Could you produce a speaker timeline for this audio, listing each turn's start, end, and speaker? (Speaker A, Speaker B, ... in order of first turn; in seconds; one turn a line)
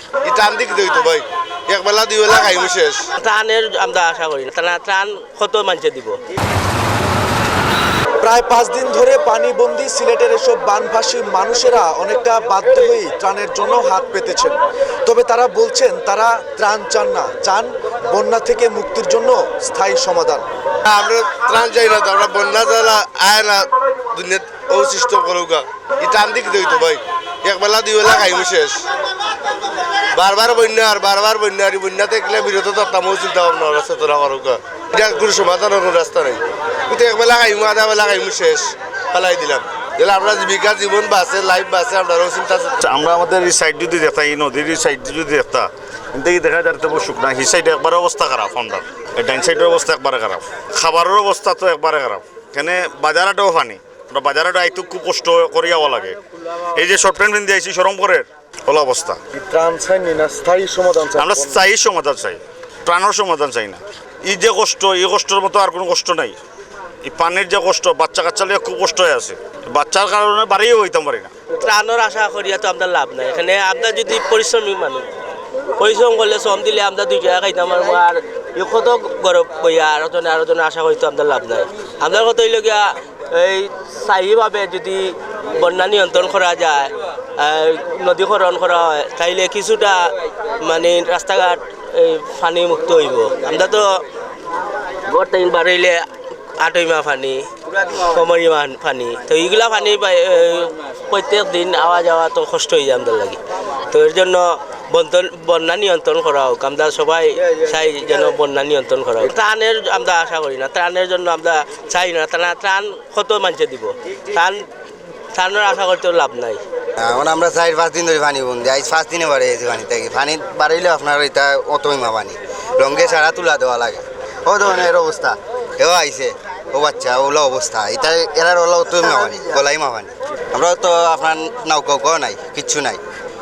Speaker A: 0.2-3.0
Speaker B: 3.2-6.2
Speaker C: 8.2-20.4
Speaker A: 20.8-28.9
Speaker A: 30.1-42.8
Speaker D: 42.8-56.2
Speaker D: 56.7-59.2
Speaker C: 59.3-61.6
Speaker D: 61.1-66.4
Speaker D: 67.0-71.3
Speaker B: 71.6-75.0
Speaker B: 75.8-93.9
Speaker B: 95.1-96.0
Speaker B: 96.6-114.7
Speaker B: 115.3-116.6
Speaker E: 117.0-133.0